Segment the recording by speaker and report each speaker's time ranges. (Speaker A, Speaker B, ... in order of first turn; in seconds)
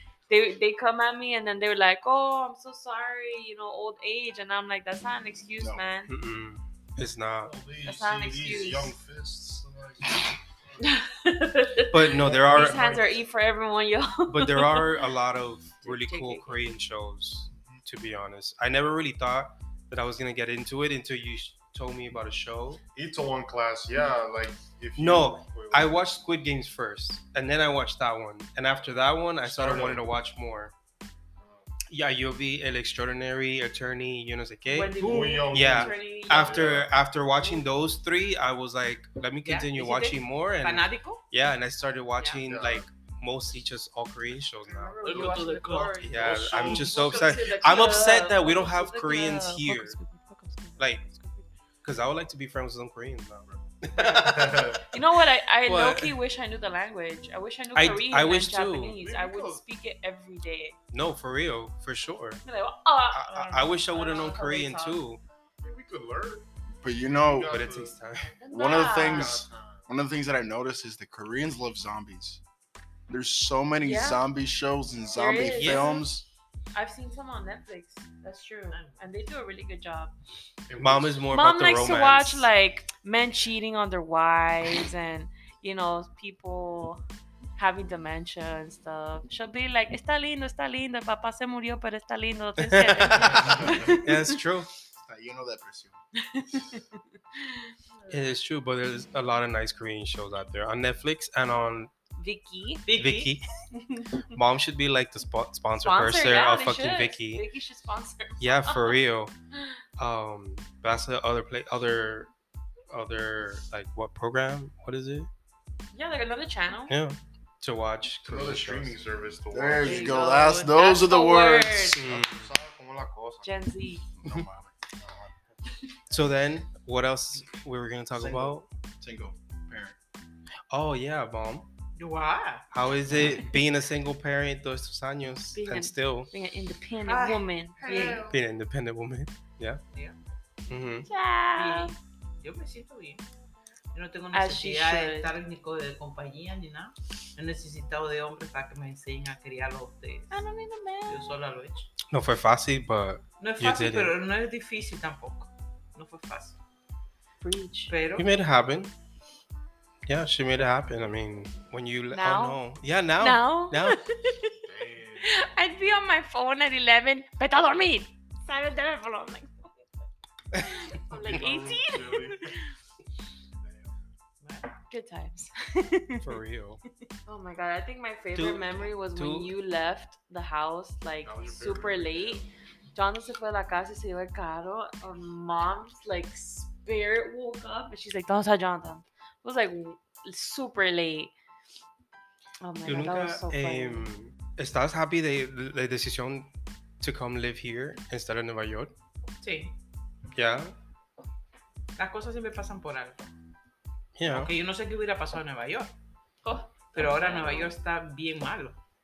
Speaker A: 0.3-6.1, 7.8-8.9, 10.8-14.9, 15.8-16.6, 34.7-36.6, 44.7-51.5, 54.9-60.8, 62.4-65.0, 68.4-69.3, 73.8-74.2, 75.1-76.0, 76.7-80.1, 81.3-87.0, 87.6-94.3, 96.2-98.3, 102.2-102.9, 103.8-104.1, 105.8-109.0, 115.9-117.0, 120.2-122.0, 123.4-124.0, 135.5-138.2, 141.1-141.9, 144.3-145.4, 150.3-151.3, 157.4-157.9, 162.1-162.6, 163.2-164.5, 165.2-169.9, 170.5-172.6, 174.9-176.3, 177.2-182.4, 182.9-191.3, 192.6-194.1, 206.4-207.8
Speaker B: 6.1-7.5, 11.9-12.9, 14.3-22.8, 25.0-30.7, 31.9-45.4, 46.0-50.0, 51.8-54.8, 55.6-56.1, 57.7-59.0, 60.9-62.4, 63.1-65.2, 67.5-68.3, 75.3-76.0, 80.8-82.5, 92.6-94.7, 98.1-101.9, 102.9-103.5, 104.3-107.4, 108.4-109.3, 110.0-112.3, 112.9-115.3, 116.9-119.0, 122.0-122.5, 126.1-128.7, 130.7-131.7, 132.7-136.3, 138.3-139.8, 140.7-141.1, 152.1-154.1, 158.2-158.9, 160.1-164.0, 176.2-176.8, 178.3-179.5, 192.8-196.5, 197.0-198.9, 200.3-200.7, 204.2-204.5
Speaker C: 7.4-10.9, 12.2-13.1, 17.5-17.8, 22.9-26.0, 29.4-30.0, 31.4-31.7, 35.0-37.0, 42.5-42.9, 46.1-47.3, 53.5-54.8, 59.0-59.6, 65.6-66.5, 67.0-68.0, 68.8-69.9, 74.9-75.2, 80.7-81.2, 93.4-93.8, 118.2-120.2, 122.0-123.5, 164.6-165.4, 171.1-172.5, 173.6-173.9, 181.2-182.5
Speaker D: 34.8-36.3, 39.4-41.2, 45.0-46.0, 78.7-79.1, 102.8-103.3, 119.8-120.7, 132.0-132.6, 137.1-138.4, 139.9-140.2, 141.5-143.2, 143.9-150.4, 151.0-151.9, 153.4-156.6, 157.9-158.3, 174.4-174.7, 199.4-199.7, 201.9-203.2, 204.3-205.9, 206.9-208.8
Speaker E: 66.8-67.5, 68.5-72.4, 73.1-76.2, 95.0-96.0, 119.5-122.0, 124.2-124.8, 128.1-129.9